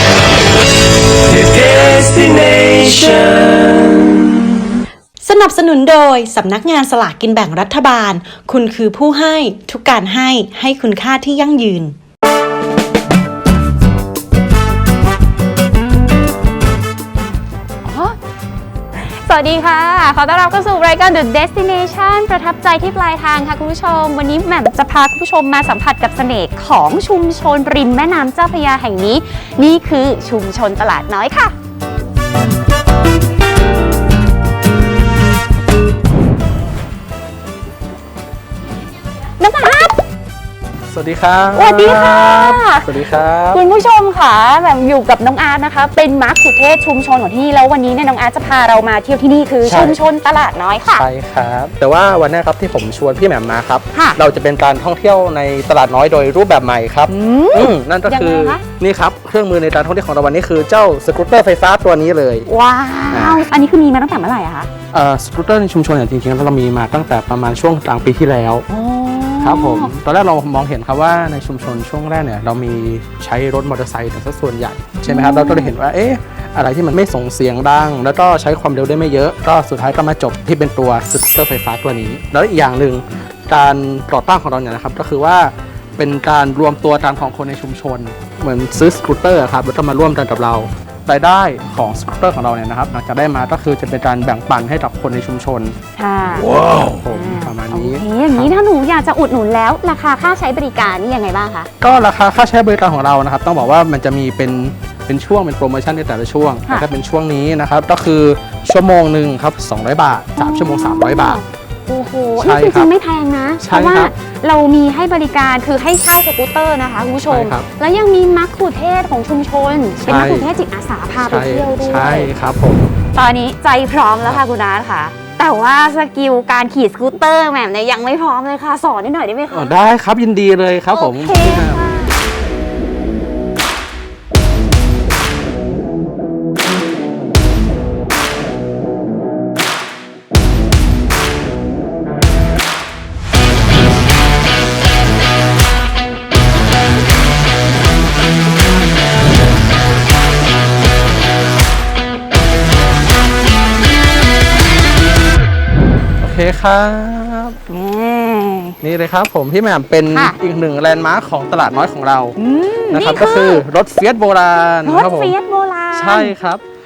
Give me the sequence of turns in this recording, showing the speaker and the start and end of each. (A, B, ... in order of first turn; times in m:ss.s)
0:01.3-0:04.1 A
0:05.2-0:12.0 A
0:17.8-0:18.2 B
0:18.9-0:31.5 B
0:39.4-0:40.0 B
0:40.9-0:43.6 C
0:41.5-0:42.9 B
0:43.5-0:51.0 B
0:49.6-0:50.0 C
0:50.9-1:02.5 C
0:53.9-0:54.2 B
0:57.1-0:58.6 B
1:02.4-1:04.7 B
1:03.1-1:03.4 C
1:04.9-1:08.6 C
1:08.7-1:09.9 B
1:09.4-1:35.7 C
1:15.0-1:15.7 B
1:36.0-1:36.5 B
1:36.4-1:38.5 C
1:37.1-1:41.7 B
1:41.8-1:51.4 C
1:50.4-2:02.3 B
1:52.4-1:52.9 C
1:53.6-1:54.1 C
1:57.3-1:57.7 C
2:00.0-2:00.5 C
2:01.2-2:02.9 C
2:03.1-2:09.7 B
2:09.5-2:11.9 C
2:10.9-2:12.2 B
2:36.2-2:37.6 C
2:37.7-2:38.8 B
2:38.8-2:42.3 C
2:42.4-2:43.6 B
2:42.9-2:45.4 C
2:44.8-2:46.3 B
2:45.9-2:46.6 C